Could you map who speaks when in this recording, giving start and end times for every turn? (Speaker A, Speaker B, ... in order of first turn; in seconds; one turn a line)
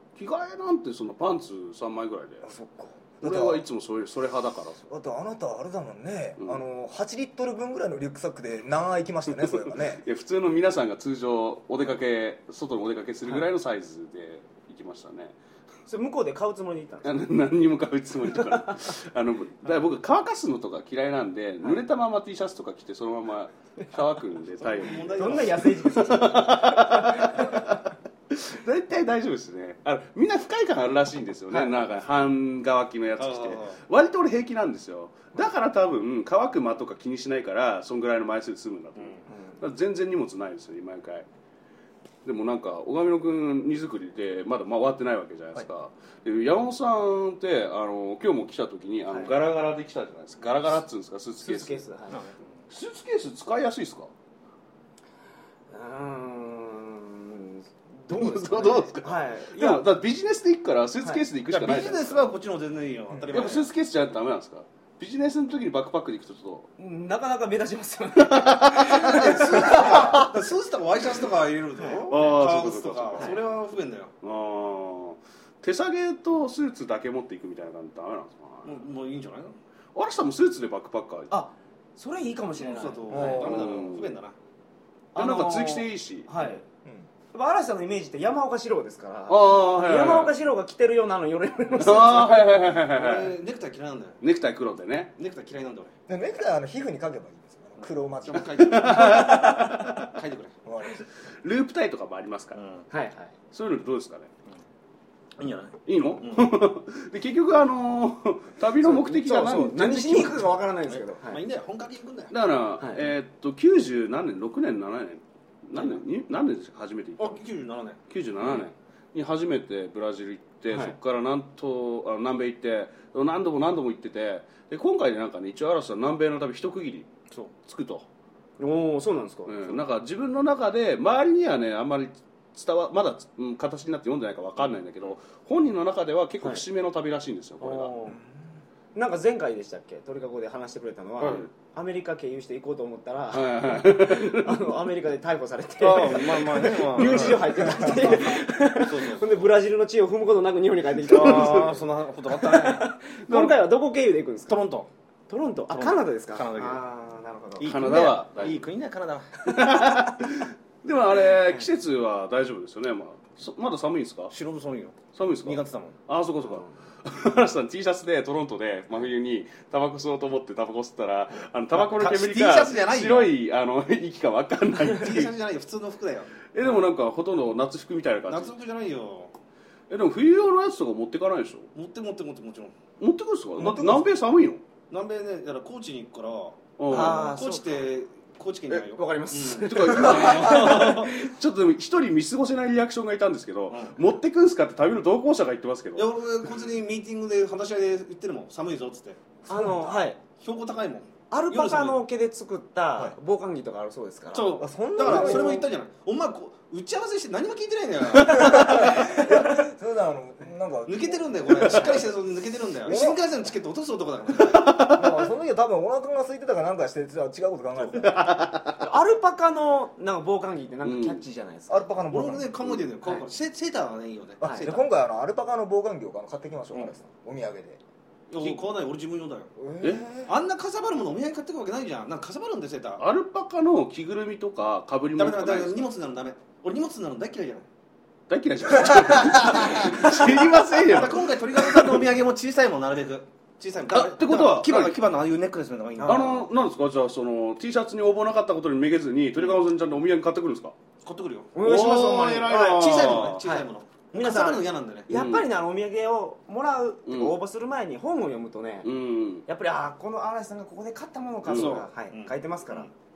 Speaker A: 0.2-2.5
Speaker B: 2.4-3.6
Speaker A: 3.2-4.8
Speaker B: 4.9-10.0
Speaker A: 9.4-15.3
Speaker C: 15.9-17.2
Speaker A: 17.0-41.2
Speaker D: 24.6-25.7
Speaker C: 25.1-27.7
Speaker D: 33.2-33.8
Speaker A: 42.2-51.8
Speaker C: 49.1-49.4
Speaker C: 51.4-52.2
Speaker D: 52.1-52.5
Speaker A: 52.7-54.1
Speaker C: 55.7-59.8
Speaker A: 58.1-62.3
Speaker D: 61.5-63.7
Speaker B: 63.1-63.5
Speaker A: 63.3-66.7
Speaker C: 66.8-69.8
Speaker A: 68.2-70.0
Speaker D: 69.0-74.1
Speaker C: 71.8-72.3
Speaker A: 72.0-73.4
Speaker C: 73.1-73.4
Speaker A: 74.2-78.8
Speaker D: 78.6-79.5
Speaker A: 79.9-81.3
Speaker C: 81.3-83.8
Speaker D: 82.6-84.3
Speaker A: 83.1-84.2
Speaker B: 83.1-83.5
Speaker C: 85.1-86.6
Speaker A: 85.2-86.3
Speaker C: 87.3-92.7
Speaker A: 89.3-90.3
Speaker A: 91.8-93.3
Speaker D: 92.9-94.2
Speaker A: 94.2-95.1
Speaker D: 95.2-95.9
Speaker B: 96.1-99.8
Speaker D: 97.8-100.5
Speaker A: 98.3-100.1
Speaker B: 100.6-101.0
Speaker A: 101.4-102.6
Speaker D: 102.5-102.9
Speaker C: 102.9-103.3
Speaker A: 103.5-104.3
Speaker D: 105.4-106.6
Speaker A: 105.8-110.6
Speaker C: 108.8-111.4
Speaker D: 110.9-112.3
Speaker A: 112.3-117.4
Speaker C: 112.8-113.1
Speaker D: 115.8-116.0
Speaker D: 117.2-118.7
Speaker A: 118.1-127.1
Speaker C: 120.7-121.0
Speaker A: 127.6-128.0
Speaker C: 128.6-129.8
Speaker A: 129.4-137.9
Speaker C: 137.6-138.2
Speaker B: 138.1-138.4
Speaker C: 138.9-154.6
Speaker A: 141.2-141.5
Speaker D: 141.2-141.4
Speaker A: 143.3-144.6
Speaker D: 145.8-149.5
Speaker B: 147.6-148.2
Speaker D: 151.0-152.9
Speaker A: 151.1-151.7
Speaker A: 153.2-153.6
Speaker D: 154.5-154.9
Speaker C: 155.3-158.0
Speaker D: 155.7-156.8
Speaker D: 157.6-159.3
Speaker A: 157.6-158.7
Speaker A: 159.4-164.3
Speaker C: 159.5-160.1
Speaker D: 164.3-166.0
Speaker A: 165.1-175.3
Speaker C: 166.4-166.7
Speaker D: 171.7-173.3
Speaker D: 174.9-176.3
Speaker A: 176.5-178.5
Speaker D: 178.3-179.3
Speaker A: 179.9-181.7
Speaker D: 181.7-182.7
Speaker A: 183.0-184.6
Speaker B: 183.6-184.1
Speaker D: 184.9-191.1
Speaker A: 186.8-187.3
Speaker C: 186.9-187.7
Speaker C: 188.7-191.3
Speaker A: 189.3-196.1
Speaker D: 193.7-194.0
Speaker D: 195.9-199.2
Speaker C: 199.5-200.2
Speaker B: 199.5-200.0
Speaker D: 200.4-202.0
Speaker C: 201.3-205.6
Speaker D: 204.3-209.0
Speaker B: 204.6-205.7
Speaker C: 208.3-209.7
Speaker B: 208.3-212.0
Speaker D: 210.8-214.8
Speaker A: 211.6-212.0
Speaker B: 212.8-213.2
Speaker A: 214.5-215.1
Speaker B: 214.8-218.3
Speaker D: 217.8-218.2
Speaker A: 218.1-218.8
Speaker C: 218.8-222.0
Speaker A: 220.8-221.2
Speaker B: 221.7-222.8
Speaker D: 222.1-224.8
Speaker C: 224.4-224.8
Speaker B: 224.4-227.8
Speaker D: 228.3-229.5
Speaker B: 229.6-230.3
Speaker A: 229.8-230.1
Speaker D: 230.2-233.0
Speaker A: 233.0-235.9
Speaker D: 235.2-237.7
Speaker A: 238.3-242.1
Speaker D: 239.4-246.5
Speaker A: 243.9-245.0
Speaker C: 246.0-246.4
Speaker A: 246.0-250.7
Speaker D: 251.0-251.6
Speaker C: 251.5-258.9
Speaker A: 251.6-253.5
Speaker D: 252.6-255.1
Speaker A: 255.1-255.5
Speaker A: 257.1-257.4
Speaker A: 258.8-259.4
Speaker C: 259.4-262.9
Speaker A: 261.4-261.8
Speaker D: 261.5-262.9